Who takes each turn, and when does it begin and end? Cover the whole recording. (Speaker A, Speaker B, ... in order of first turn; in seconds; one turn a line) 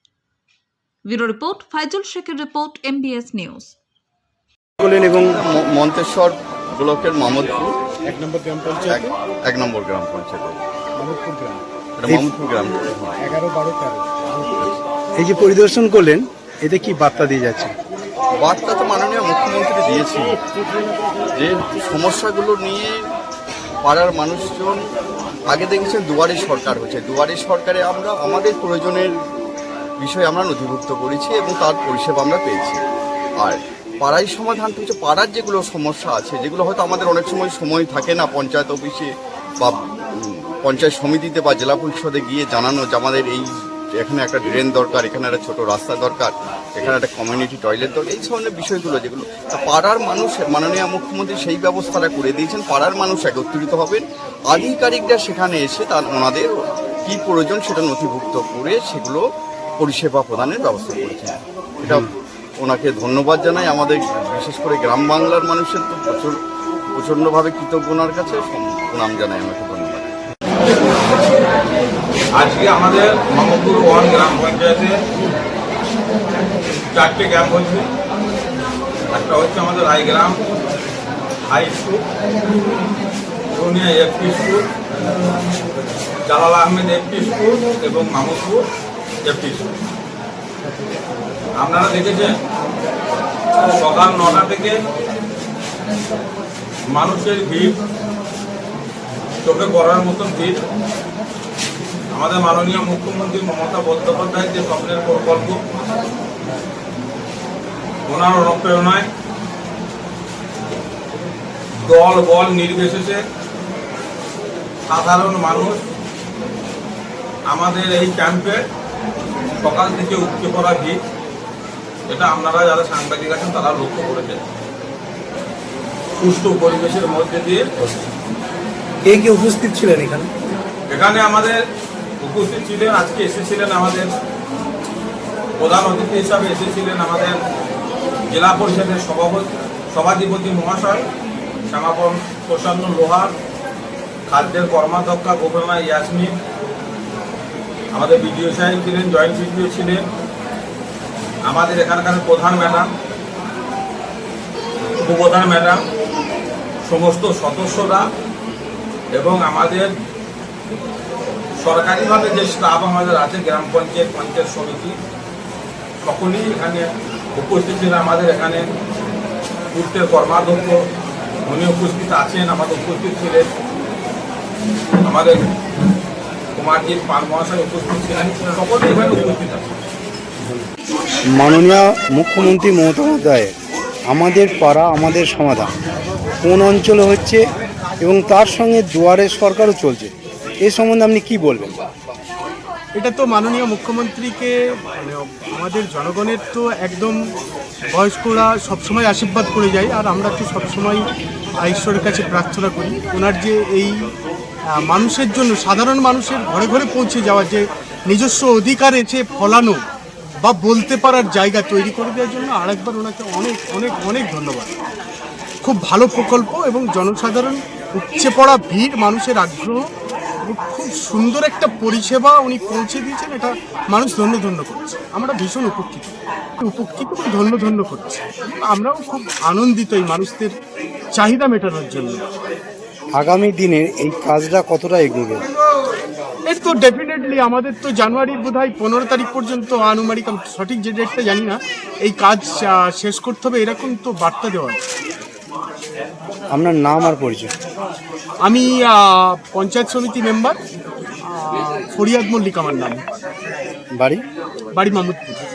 Speaker A: 1.1-3.7
Speaker B: 4.8-5.3
Speaker C: 5.1-7.7
Speaker B: 8.1-9.1
Speaker C: 8.8-10.6
Speaker B: 11.0-12.3
Speaker C: 12.0-13.2
Speaker B: 13.2-14.2
Speaker B: 15.2-17.7
Speaker C: 18.4-20.3
Speaker C: 21.4-22.9
Speaker C: 23.8-24.8
Speaker C: 25.5-29.1
Speaker C: 30.0-32.8
Speaker C: 33.4-39.1
Speaker C: 39.6-43.5
Speaker C: 44.0-56.5
Speaker C: 57.0-59.2
Speaker C: 59.8-62.1
Speaker C: 62.6-66.4
Speaker C: 66.9-70.1
Speaker D: 72.3-75.0
Speaker D: 76.9-77.9
Speaker D: 79.1-80.4
Speaker D: 81.5-82.0
Speaker D: 83.5-84.7
Speaker D: 86.3-88.6
Speaker D: 89.2-89.7
Speaker D: 91.6-92.3
Speaker D: 93.7-94.8
Speaker D: 96.9-97.8
Speaker D: 99.4-100.6
Speaker D: 102.1-105.6
Speaker D: 108.1-109.1
Speaker D: 111.8-113.2
Speaker D: 114.9-115.8
Speaker D: 117.5-118.6
Speaker D: 119.6-121.0
Speaker D: 122.1-124.4
Speaker D: 126.2-127.7
Speaker B: 129.1-130.3
Speaker D: 130.9-131.6
Speaker D: 132.2-134.1
Speaker D: 135.6-137.3
Speaker D: 138.3-141.1
Speaker D: 141.7-143.3
Speaker D: 144.3-146.3
Speaker D: 147.9-150.0
Speaker D: 151.5-152.9
Speaker D: 155.0-155.8
Speaker D: 156.8-158.1
Speaker D: 159.1-159.9
Speaker D: 161.6-164.9
Speaker D: 166.0-168.6
Speaker D: 169.7-170.7
Speaker D: 171.4-173.5
Speaker D: 175.0-175.4
Speaker D: 176.6-179.7
Speaker B: 181.3-183.5
Speaker B: 184.1-185.7
Speaker B: 186.4-187.4
Speaker B: 188.0-190.1
Speaker B: 190.6-191.7
Speaker E: 193.0-197.2
Speaker E: 197.9-201.0
Speaker E: 201.6-203.9
Speaker E: 204.9-209.8
Speaker E: 210.4-214.7
Speaker E: 215.6-219.8
Speaker E: 220.4-230.5
Speaker E: 231.1-232.2
Speaker B: 233.2-235.4
Speaker E: 236.5-244.8
Speaker B: 246.5-247.5
Speaker E: 248.4-250.6
Speaker E: 251.3-253.0
Speaker B: 253.9-254.2
Speaker E: 254.7-255.4